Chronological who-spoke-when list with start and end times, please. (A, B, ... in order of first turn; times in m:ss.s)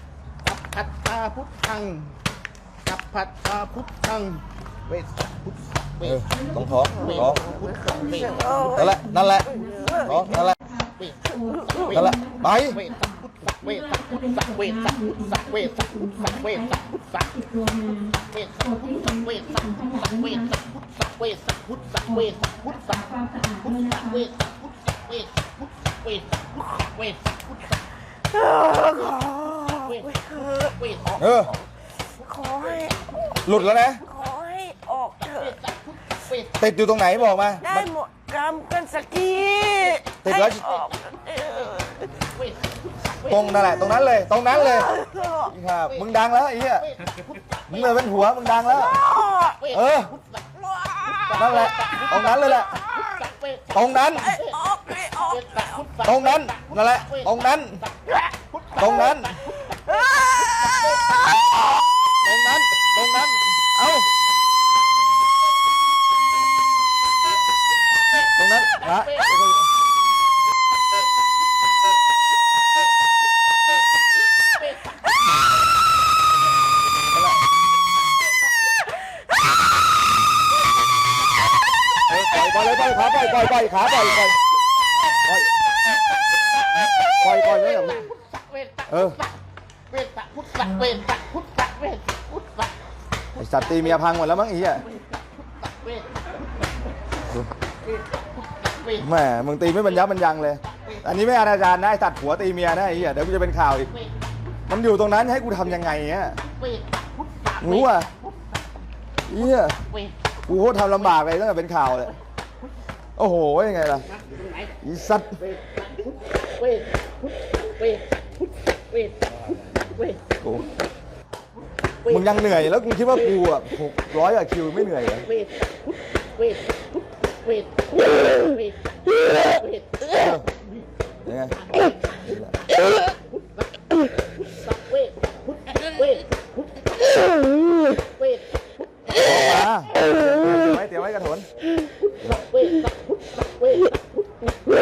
0:00.4-0:02.1 A
0:02.8-0:08.7 A
0:06.0-0:07.5 B
0:06.6-0:10.8 C
0:08.7-0:10.6 B
0:10.8-0:17.4 A
0:11.5-0:12.4 C
0:11.9-0:12.8 B
0:17.4-0:18.1 C
0:18.1-0:27.8 A
0:23.2-0:23.5 C
0:28.3-0:30.8 C
0:29.7-0:31.6 A
0:31.2-0:31.5 B
0:32.2-0:33.0 A
0:32.3-0:35.6 C
0:33.4-0:34.0 B
0:35.2-0:37.0 A
0:36.6-0:37.9 B
0:37.6-0:42.1 C
0:40.2-0:40.6 B
0:42.2-0:44.1 A
0:43.3-0:44.9 B
0:44.5-0:45.6 C
0:45.5-0:46.9 B
0:46.8-0:48.3 A
0:47.7-0:49.0 B
0:48.7-0:49.6 C
0:49.6-1:01.3 A
0:49.7-0:50.1 B
0:50.7-0:51.6 C
0:51.4-0:52.7 B
0:52.7-0:53.2 C
0:53.7-0:54.4 B
0:54.2-0:55.8 C
0:56.0-0:57.8 B
0:58.8-0:59.4 B
0:59.7-1:01.4 C
1:02.2-1:04.1 B
1:08.1-1:09.4 A
1:08.4-1:09.7 B
1:14.5-1:15.1 A
1:17.1-1:17.4 B
1:22.1-1:24.4 B
1:25.9-1:32.8 A
1:27.2-1:28.0 B
1:28.9-1:29.2 B
1:33.3-1:34.1 A
1:33.4-1:34.8 B
1:34.8-1:36.7 A
1:37.8-1:39.1 A
1:39.0-1:43.9 B
1:39.6-1:41.2 A
1:43.9-1:44.3 A
1:44.7-1:46.4 B
1:46.4-1:48.6 A
1:47.6-1:48.1 B
1:49.3-1:49.8 B
1:49.7-1:51.1 A
1:50.5-1:52.1 B
1:53.2-1:54.1 B
1:54.0-1:54.8 A
1:54.8-1:55.4 B
1:55.4-2:00.2 A
2:02.0-2:03.5 A
2:02.1-2:05.3 B
2:05.0-2:10.2 A
2:10.2-2:10.4 B
2:11.2-2:11.6 B
2:11.6-2:13.8 A
2:12.2-2:12.5 B
2:14.4-2:17.1 A
2:17.4-2:17.8 C
2:18.0-2:19.6 A
2:19.2-2:21.5 B
2:22.0-2:24.3 A